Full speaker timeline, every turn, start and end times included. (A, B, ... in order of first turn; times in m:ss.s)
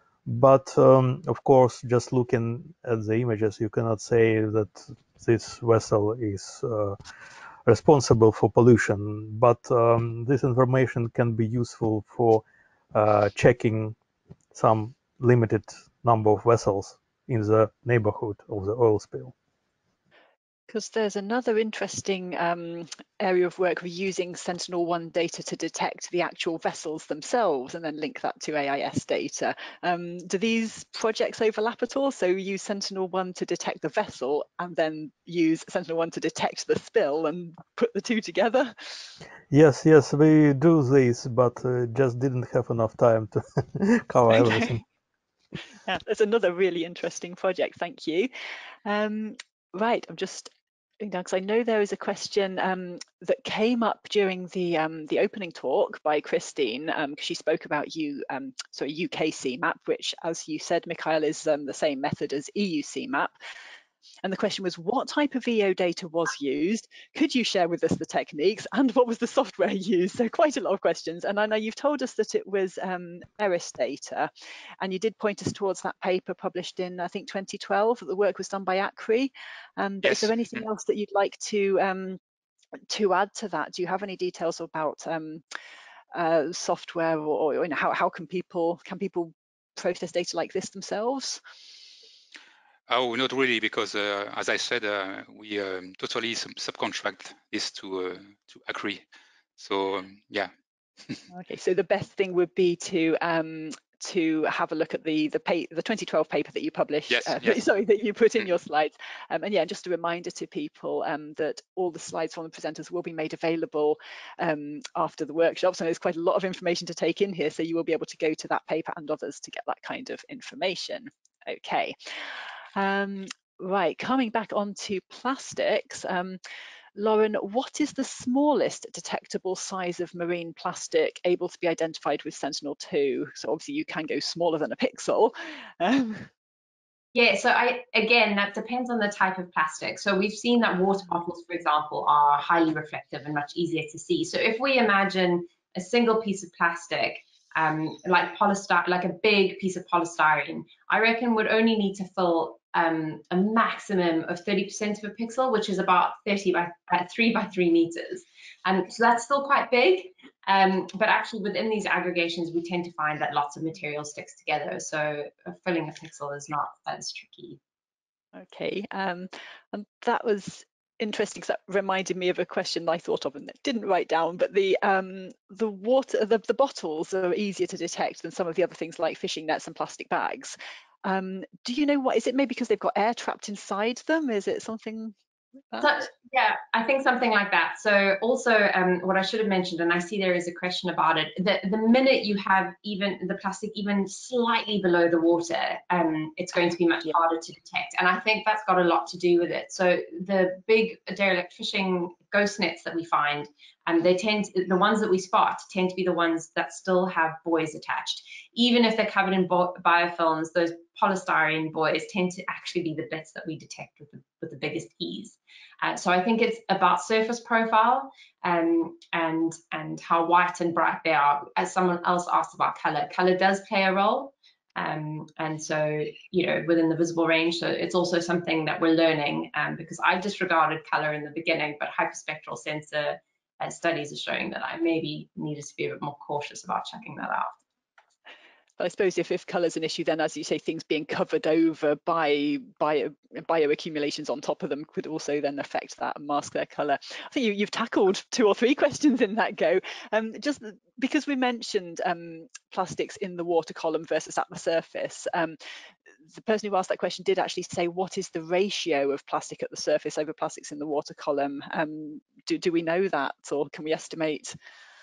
0:00.3-0:07.0 A
0:07.7-0:14.0 A
0:14.5-0:19.3 A
0:20.7-0:38.8 B
0:39.5-0:44.8 A
0:44.3-0:44.8 B
0:45.8-0:48.3 B
0:48.8-1:03.3 B
1:04.2-1:14.3 B
1:14.8-1:22.2 B
1:20.0-1:20.6 C
1:22.9-1:25.4 B
1:26.1-1:31.4 B
1:32.9-1:39.0 C
1:39.6-1:40.5 C
1:41.3-2:02.0 B
1:47.1-1:47.6 C
2:02.8-2:06.4 B
2:07.0-2:16.3 B
2:17.1-2:47.6 D
2:48.4-3:05.2 B
3:05.8-3:57.6 D
3:58.8-4:15.6 B
4:16.3-4:24.6 B